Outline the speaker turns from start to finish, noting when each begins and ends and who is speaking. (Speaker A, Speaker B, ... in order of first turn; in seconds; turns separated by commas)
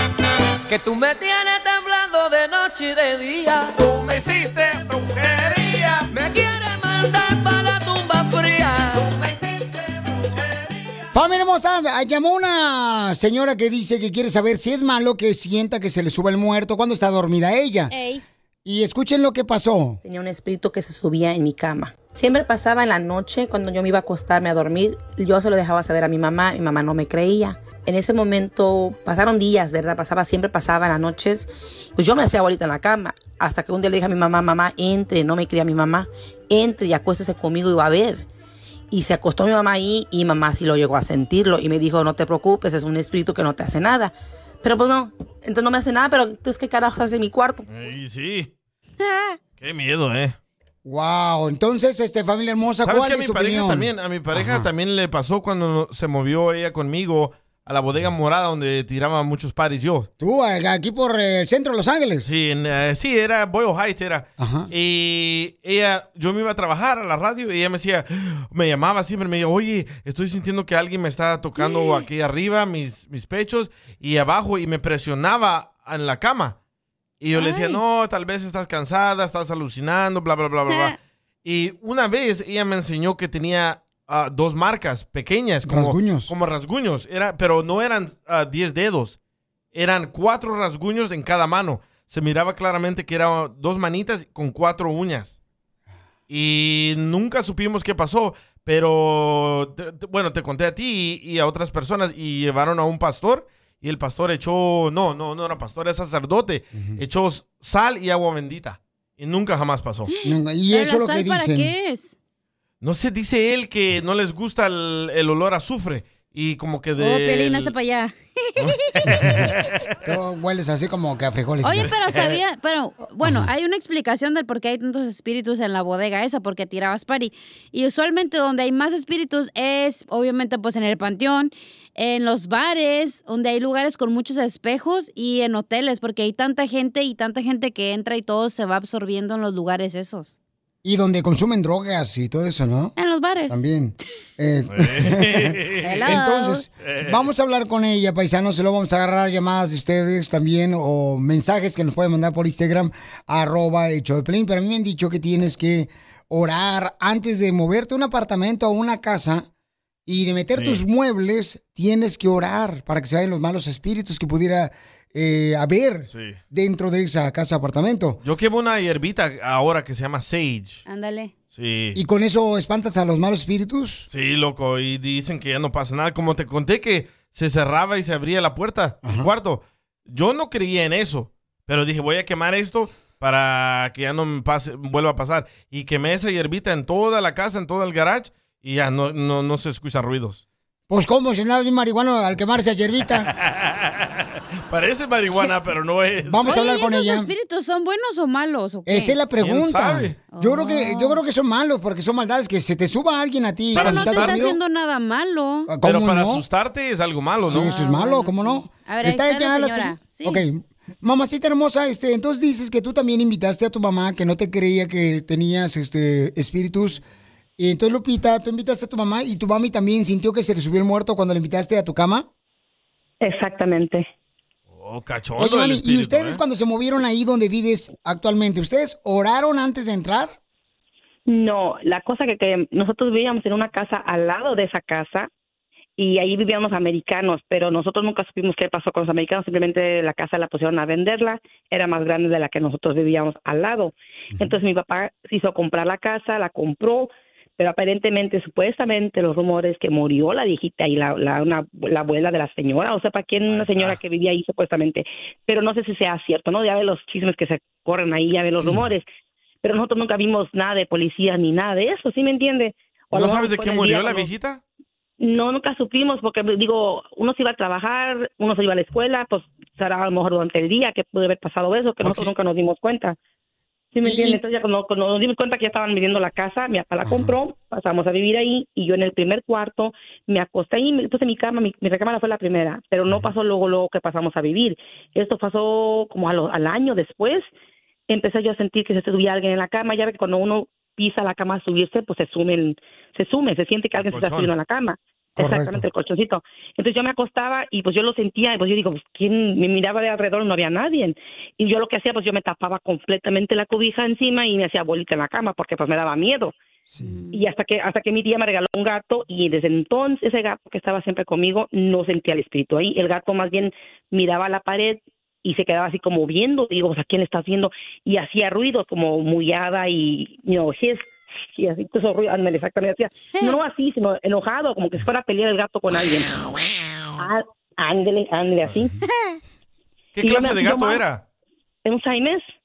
Speaker A: 0.7-10.1, Speaker B: 11.1-17.9, Speaker C: 17.9-18.2, Speaker B: 18.6-20.0, Speaker D: 20.0-38.2, Speaker D: 38.9-47.6, Speaker E: 47.7-48.5, Speaker C: 49.0-49.4, Speaker E: 49.6-50.4, Speaker B: 50.8-54.7, Speaker E: 52.8-60.1, Speaker B: 60.2-62.3, Speaker E: 62.2-76.6, Speaker B: 64.4-64.7, Speaker C: 71.6-72.0, Speaker E: 77.2-89.2, Speaker C: 77.3-77.8, Speaker C: 80.7-80.9, Speaker B: 85.6-86.3, Speaker E: 89.7-95.3, Speaker E: 96.3-110.1, Speaker C: 110.1-112.2, Speaker B: 110.2-111.7, Speaker E: 112.8-117.7, Speaker C: 117.0-118.9, Speaker E: 118.6-119.7, Speaker B: 119.1-119.5, Speaker B: 120.0-121.9, Speaker C: 121.6-140.3, Speaker E: 122.1-122.4, Speaker B: 123.2-123.5, Speaker B: 140.8-142.9, Speaker C: 142.9-143.6, Speaker B: 143.5-159.5, Speaker E: 144.7-146.0, Speaker C: 145.8-146.6, Speaker E: 146.8-147.3, Speaker B: 160.1-168.2, Speaker E: 160.5-160.8, Speaker E: 166.1-166.4, Speaker E: 168.2-170.8, Speaker C: 170.9-171.3, Speaker E: 171.5-172.0, Speaker B: 171.9-174.1, Speaker E: 174.1-190.4, Speaker B: 179.0-179.3, Speaker B: 190.9-193.3, Speaker E: 193.3-196.6, Speaker B: 196.3-197.3, Speaker C: 196.5-199.2, Speaker B: 198.8-204.6, Speaker E: 199.4-200.2, Speaker C: 200.3-201.2, Speaker E: 203.7-204.5, Speaker C: 203.7-205.7, Speaker B: 205.7-206.4, Speaker E: 205.8-207.7, Speaker B: 207.4-217.0, Speaker C: 207.5-210.4, Speaker B: 217.6-222.2, Speaker F: 223.2-224.1, Speaker E: 224.7-226.4, Speaker B: 225.4-230.3, Speaker F: 231.3-235.3, Speaker F: 236.0-259.1, Speaker B: 244.3-244.6, Speaker E: 253.4-254.0, Speaker B: 258.6-258.8, Speaker F: 259.6-264.3, Speaker E: 263.1-264.6, Speaker F: 265.2-273.2, Speaker E: 272.0-272.3, Speaker F: 273.9-287.5, Speaker B: 274.0-274.4, Speaker B: 277.0-277.3, Speaker F: 288.1-306.5, Speaker E: 294.0-294.5, Speaker B: 295.4-295.9, Speaker B: 306.9-307.2, Speaker C: 307.0-307.4, Speaker F: 307.3-326.4, Speaker F: 327.2-328.9, Speaker E: 330.1-331.2, Speaker F: 330.2-331.0, Speaker F: 331.8-332.5